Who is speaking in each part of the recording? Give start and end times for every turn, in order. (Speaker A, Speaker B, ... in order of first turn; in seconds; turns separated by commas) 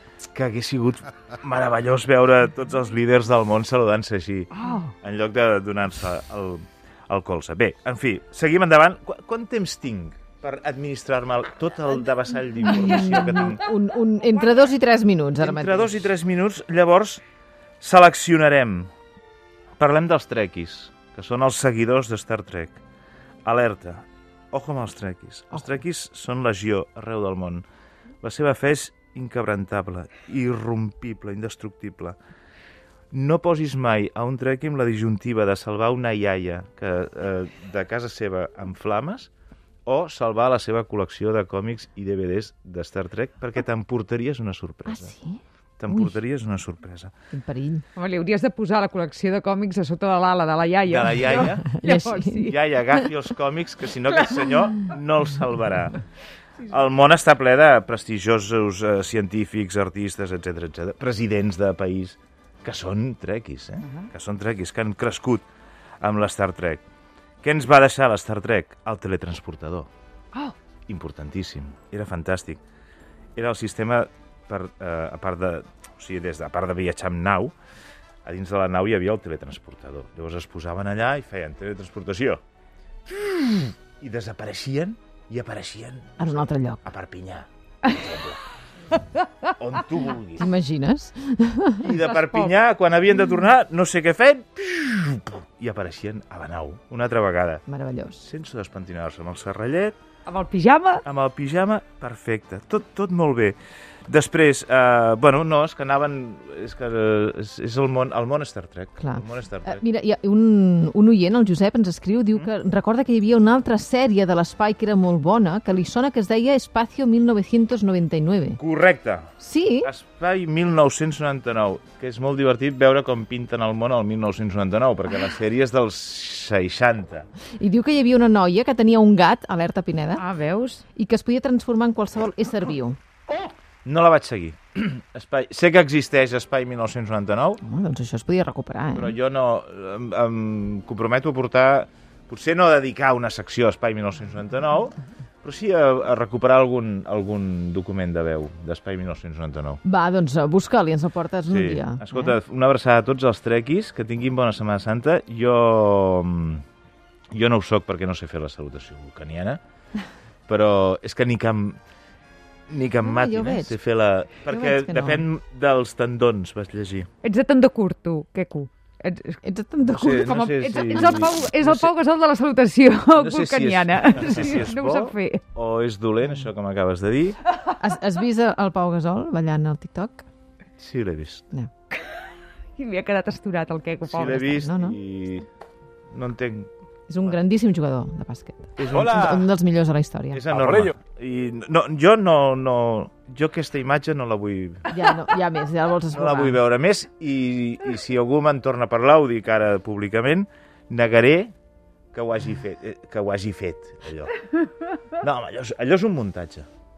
Speaker A: 0.3-13.6, Speaker B: 4.5-4.9, Speaker C: 12.7-16.1, Speaker A: 15.4-17.2, Speaker A: 17.8-18.9, Speaker A: 19.8-22.8, Speaker A: 23.4-27.6, Speaker A: 28.2-32.1, Speaker A: 33.1-39.3, Speaker A: 39.9-45.1, Speaker C: 44.9-45.4, Speaker A: 45.8-47.1, Speaker C: 47.3-47.8, Speaker B: 48.0-52.5, Speaker A: 50.9-51.7, Speaker C: 51.4-52.5, Speaker A: 52.4-56.0, Speaker A: 56.6-65.4, Speaker B: 63.8-64.1, Speaker A: 66.0-66.8, Speaker A: 67.4-69.9, Speaker A: 70.9-72.6, Speaker A: 73.3-77.5, Speaker A: 78.2-82.4, Speaker A: 83.0-88.4, Speaker C: 86.2-86.8, Speaker A: 89.6-90.5, Speaker C: 90.4-91.9, Speaker A: 91.8-97.6, Speaker B: 92.1-92.5, Speaker C: 97.7-98.3, Speaker A: 98.2-99.9, Speaker B: 100.2-101.0, Speaker A: 101.0-103.5, Speaker A: 104.1-109.8, Speaker C: 109.0-118.6, Speaker A: 118.6-127.3, Speaker C: 119.4-119.9, Speaker C: 127.6-130.2, Speaker B: 130.2-130.8, Speaker C: 130.9-133.0, Speaker A: 133.8-137.6, Speaker C: 137.6-139.1, Speaker A: 138.9-149.8, Speaker C: 149.8-152.3, Speaker A: 151.5-156.6, Speaker A: 157.3-159.6, Speaker A: 160.5-161.8, Speaker A: 162.7-167.1, Speaker C: 163.0-163.8, Speaker C: 164.5-165.2, Speaker B: 167.2-169.4, Speaker C: 169.4-170.4, Speaker A: 170.0-171.9, Speaker B: 170.2-175.4, Speaker C: 170.9-171.2, Speaker A: 173.1-177.4, Speaker C: 177.8-180.2, Speaker A: 180.8-181.4, Speaker B: 182.8-184.6, Speaker A: 184.1-185.4, Speaker C: 184.4-185.0, Speaker A: 186.1-186.7, Speaker C: 187.1-190.4, Speaker A: 188.8-189.5, Speaker A: 190.3-194.9, Speaker C: 194.9-196.6, Speaker A: 196.1-201.5, Speaker A: 202.1-204.3, Speaker A: 205.2-206.7